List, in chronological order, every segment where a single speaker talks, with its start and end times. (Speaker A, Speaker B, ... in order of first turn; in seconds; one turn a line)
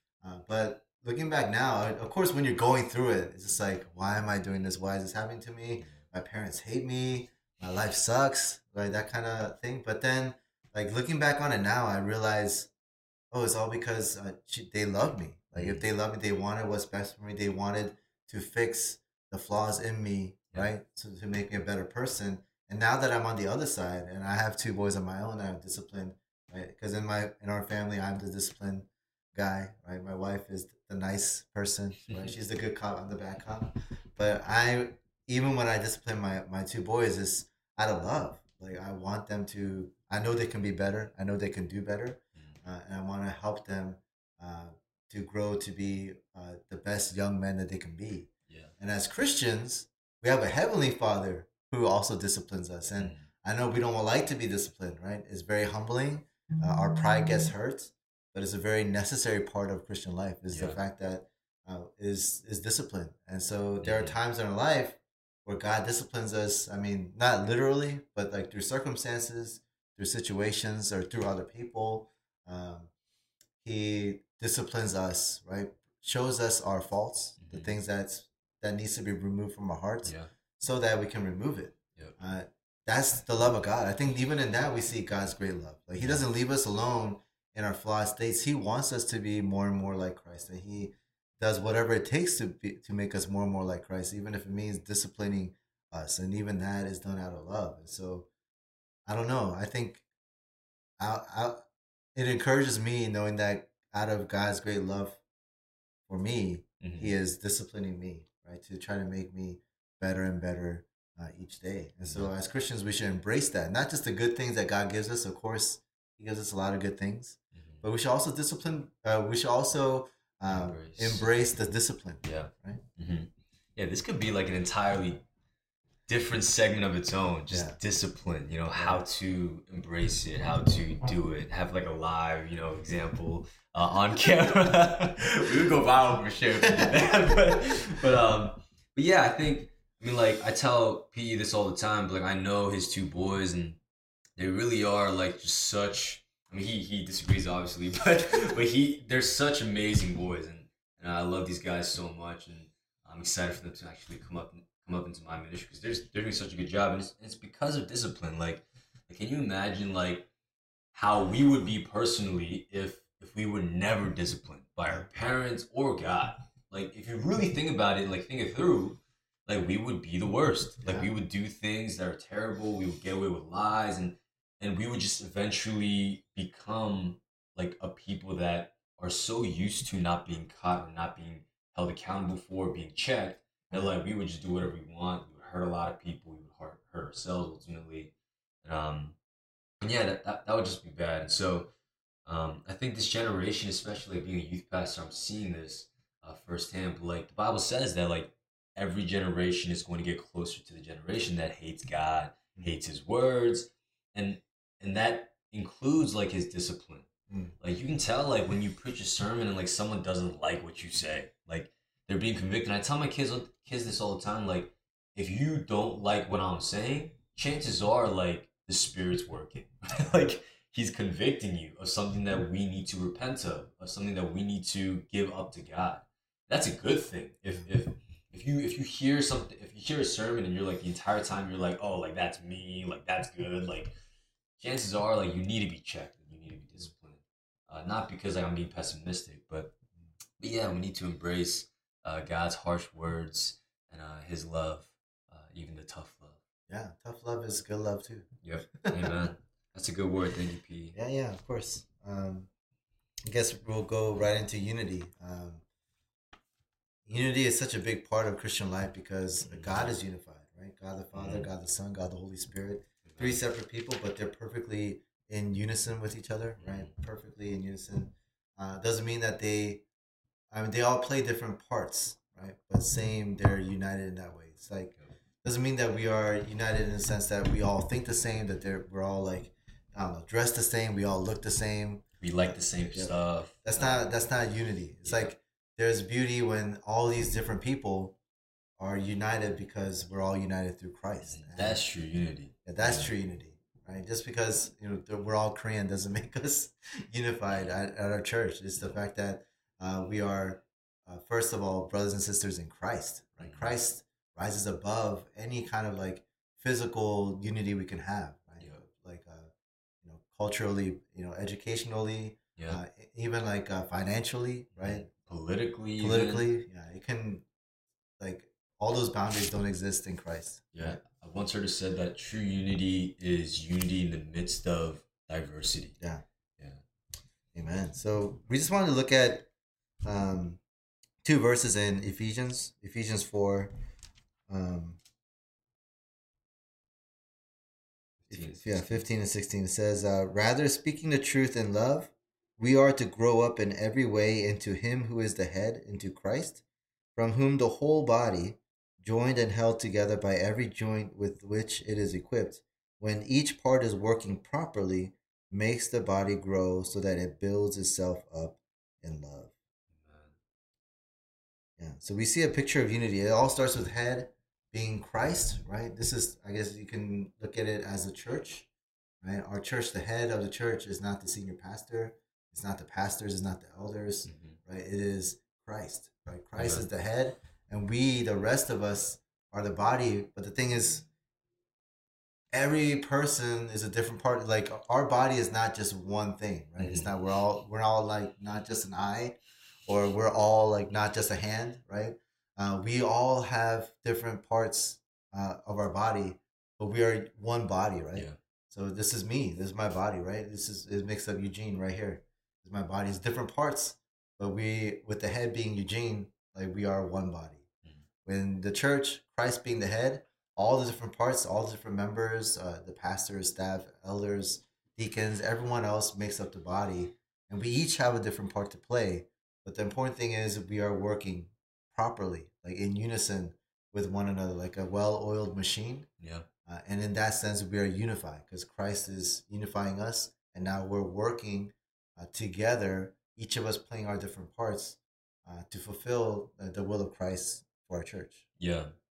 Speaker A: 0.2-12.7
Speaker A: 13.3-72.9
Speaker B: 15.6-15.8
Speaker B: 53.0-53.3
Speaker B: 60.5-60.8
Speaker B: 63.8-64.2
Speaker A: 73.6-98.3
Speaker B: 77.4-77.8
Speaker B: 80.0-80.3
Speaker B: 86.0-86.2
Speaker A: 99.1-100.0
Speaker A: 101.0-101.6
Speaker A: 102.2-105.2
Speaker A: 106.1-122.8
Speaker B: 106.8-107.2
Speaker B: 112.0-112.3
Speaker B: 117.5-117.8
Speaker B: 120.5-121.3
Speaker B: 122.2-125.2
Speaker B: 126.1-143.8
Speaker A: 127.5-127.8
Speaker B: 144.4-160.3
Speaker B: 160.9-189.2
Speaker A: 170.8-171.1
Speaker B: 189.8-191.7
Speaker B: 192.3-207.1
Speaker A: 207.3-207.5
Speaker B: 207.6-233.9
Speaker B: 234.6-239.8
Speaker B: 240.4-246.4
Speaker A: 246.7-248.3
Speaker B: 248.4-251.0
Speaker A: 248.8-249.2
Speaker A: 250.9-252.5
Speaker A: 253.2-255.6
Speaker A: 257.1-269.9
Speaker B: 259.4-259.9
Speaker B: 261.1-261.5
Speaker B: 263.1-263.4
Speaker B: 266.6-266.9
Speaker A: 270.5-274.9
Speaker A: 275.4-288.2
Speaker B: 282.2-284.1
Speaker A: 288.8-291.8
Speaker B: 291.3-293.1
Speaker A: 292.7-309.5
Speaker B: 303.4-303.7
Speaker A: 310.0-315.1
Speaker B: 314.8-316.5
Speaker A: 316.0-317.5
Speaker A: 318.2-321.0
Speaker B: 320.7-326.0
Speaker A: 327.5-329.5
Speaker A: 330.0-330.6
Speaker A: 331.2-333.7
Speaker A: 334.5-335.0
Speaker B: 338.2-339.0
Speaker A: 338.3-346.6
Speaker A: 347.2-359.5
Speaker B: 359.9-360.3
Speaker A: 361.8-368.7
Speaker A: 369.2-381.1
Speaker B: 374.3-374.6
Speaker B: 376.6-376.9
Speaker A: 382.5-407.6
Speaker B: 386.8-387.1
Speaker A: 408.2-426.1
Speaker B: 426.2-426.5
Speaker A: 426.7-438.4
Speaker B: 438.6-438.9